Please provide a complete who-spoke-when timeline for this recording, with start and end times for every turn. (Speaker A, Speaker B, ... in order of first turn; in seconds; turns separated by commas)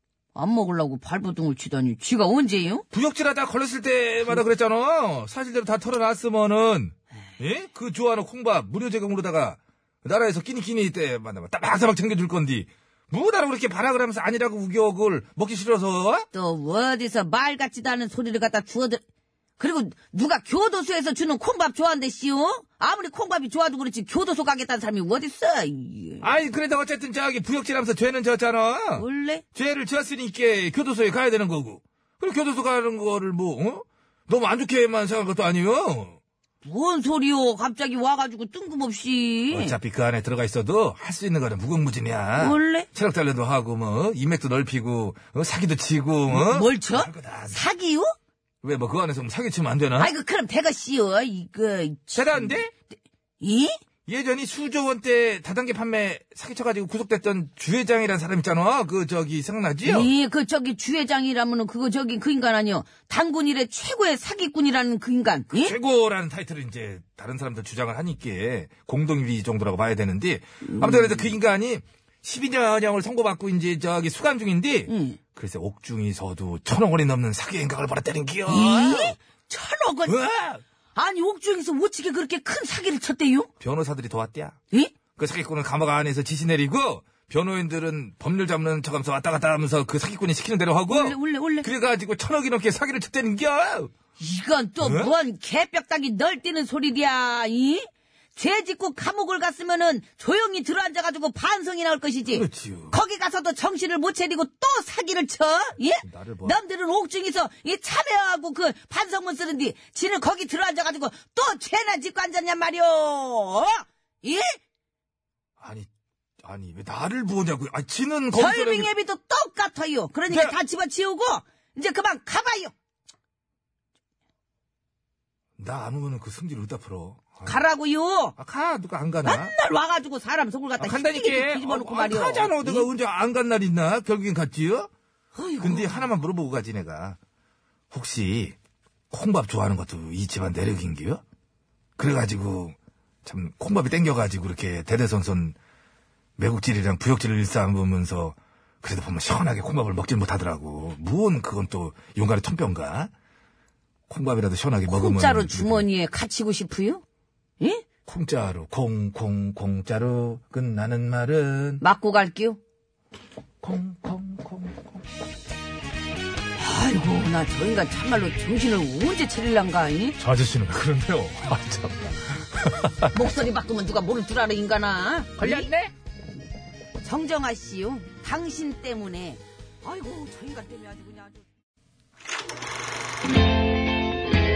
Speaker A: 0.3-2.8, Speaker B: 2.9-16.3, Speaker A: 16.3-19.0, Speaker A: 19.6-26.3, Speaker B: 26.2-36.2, Speaker A: 28.9-29.4, Speaker A: 36.6-39.8, Speaker B: 39.5-47.6, Speaker A: 42.4-42.9, Speaker A: 46.3-48.1, Speaker B: 48.6-50.1, Speaker A: 50.0-52.6, Speaker B: 52.1-52.7, Speaker A: 53.4-53.8, Speaker B: 54.0-60.1, Speaker A: 59.8-65.7, Speaker B: 65.5-79.2, Speaker A: 70.6-71.3, Speaker A: 74.9-75.2, Speaker A: 78.5-80.1, Speaker B: 80.0-80.6, Speaker A: 81.0-83.5, Speaker B: 83.6-84.6, Speaker B: 85.1-93.9, Speaker A: 90.9-91.7, Speaker A: 94.2-114.6, Speaker B: 94.8-95.1, Speaker B: 102.3-102.9, Speaker B: 106.0-106.6, Speaker B: 115.6-115.9, Speaker B: 116.4-118.9, Speaker A: 118.3-122.7, Speaker B: 120.3-120.5, Speaker B: 125.6-127.6, Speaker A: 127.4-128.3, Speaker B: 128.4-129.5, Speaker A: 129.2-132.9, Speaker B: 130.8-134.9, Speaker A: 135.3-136.1, Speaker B: 135.6-137.2, Speaker B: 137.9-138.6, Speaker B: 139.1-141.2, Speaker B: 142.0-145.6, Speaker B: 146.4-153.1, Speaker B: 154.1-155.8, Speaker A: 154.9-157.0, Speaker B: 158.1-161.8, Speaker A: 161.8-162.6, Speaker B: 163.6-165.0, Speaker A: 166.6-170.2, Speaker B: 170.2-173.3, Speaker A: 173.1-175.7, Speaker B: 175.4-175.9, Speaker A: 177.0-181.4